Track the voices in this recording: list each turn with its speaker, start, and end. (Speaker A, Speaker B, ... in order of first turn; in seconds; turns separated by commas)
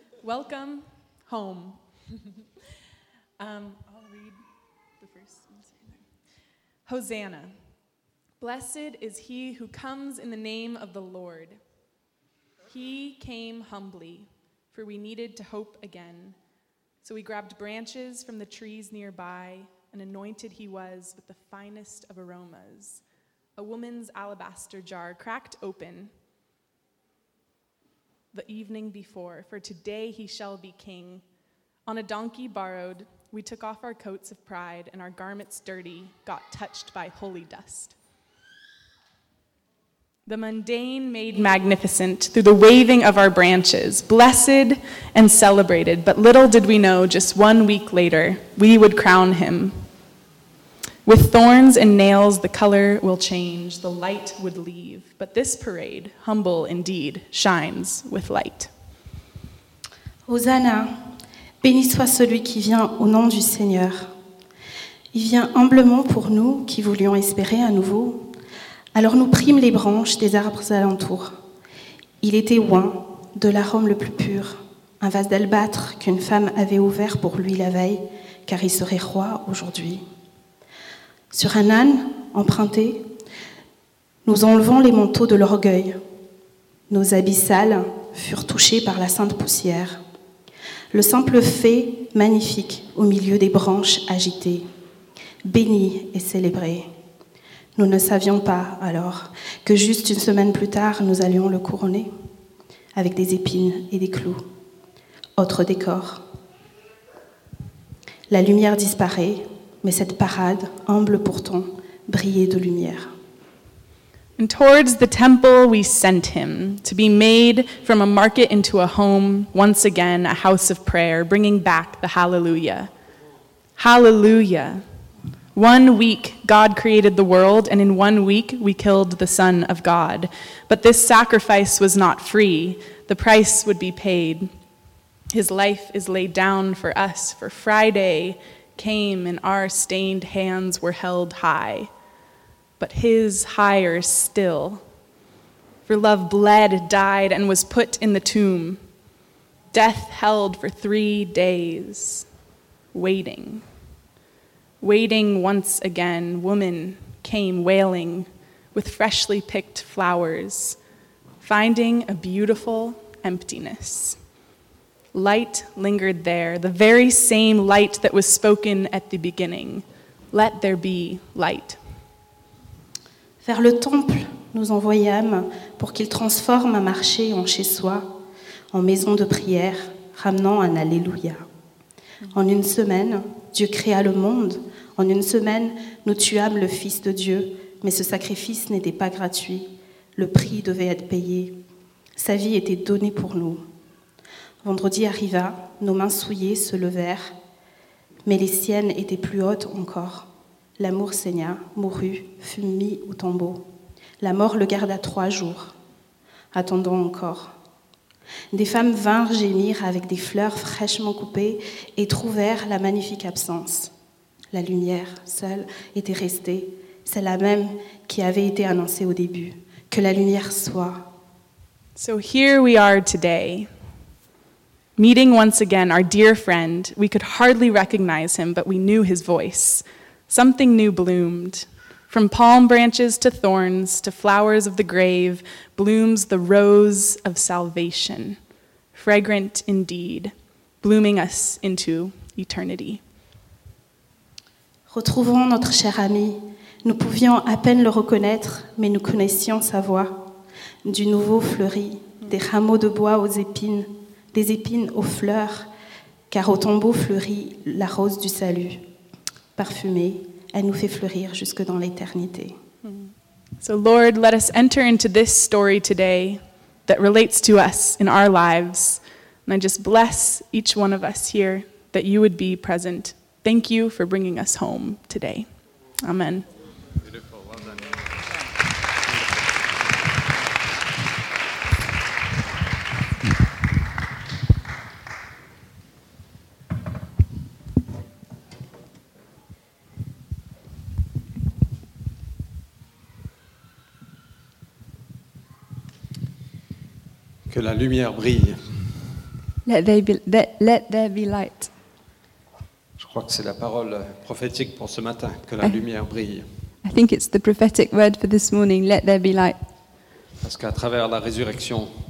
Speaker A: 0.2-2.0, Speaker A: 3.4-6.1, Speaker A: 6.8-7.6, Speaker A: 8.4-11.6, Speaker A: 12.7-16.4, Speaker A: 17.0-23.0, Speaker A: 23.6-26.1, Speaker A: 28.3-31.2, Speaker A: 31.9-38.0, Speaker A: 40.3-49.9, Speaker A: 51.1-58.7, Speaker B: 60.3-61.0, Speaker B: 61.6-64.1, Speaker B: 65.1-68.3, Speaker B: 68.9-71.4, Speaker B: 72.2-80.0, Speaker B: 81.3-83.1, Speaker B: 84.2-86.0, Speaker B: 86.9-90.0, Speaker B: 90.9-94.7, Speaker B: 95.4-96.9, Speaker B: 97.8-102.1, Speaker B: 103.0-104.5, Speaker B: 105.4-106.2, Speaker B: 108.3-113.1, Speaker A: 114.4-122.9, Speaker A: 123.8-124.8, Speaker A: 125.5-134.5, Speaker A: 135.3-141.9, Speaker A: 142.8-144.8, Speaker A: 145.8-148.8, Speaker A: 149.7-152.3, Speaker A: 152.9-153.7, Speaker A: 154.8-160.8, Speaker A: 161.4-164.2, Speaker A: 165.1-171.8, Speaker B: 173.4-178.1, Speaker B: 178.7-181.4, Speaker B: 182.3-191.6, Speaker B: 192.2-193.7, Speaker B: 194.6-197.3, Speaker B: 198.2-203.7, Speaker B: 204.2-205.8, Speaker B: 206.5-207.5, Speaker B: 208.5-213.9, Speaker B: 214.5-221.0, Speaker A: 222.0-223.7, Speaker A: 225.0-238.4, Speaker A: 238.9-243.0, Speaker B: 244.9-250.2, Speaker B: 250.8-255.7, Speaker B: 256.3-258.8, Speaker B: 259.6-262.6, Speaker A: 262.8-275.5, Speaker A: 276.0-276.5, Speaker C: 277.1-277.8, Speaker C: 297.5-298.8, Speaker D: 299.7-301.7, Speaker C: 303.0-306.5, Speaker D: 306.8-309.6, Speaker C: 310.4-311.9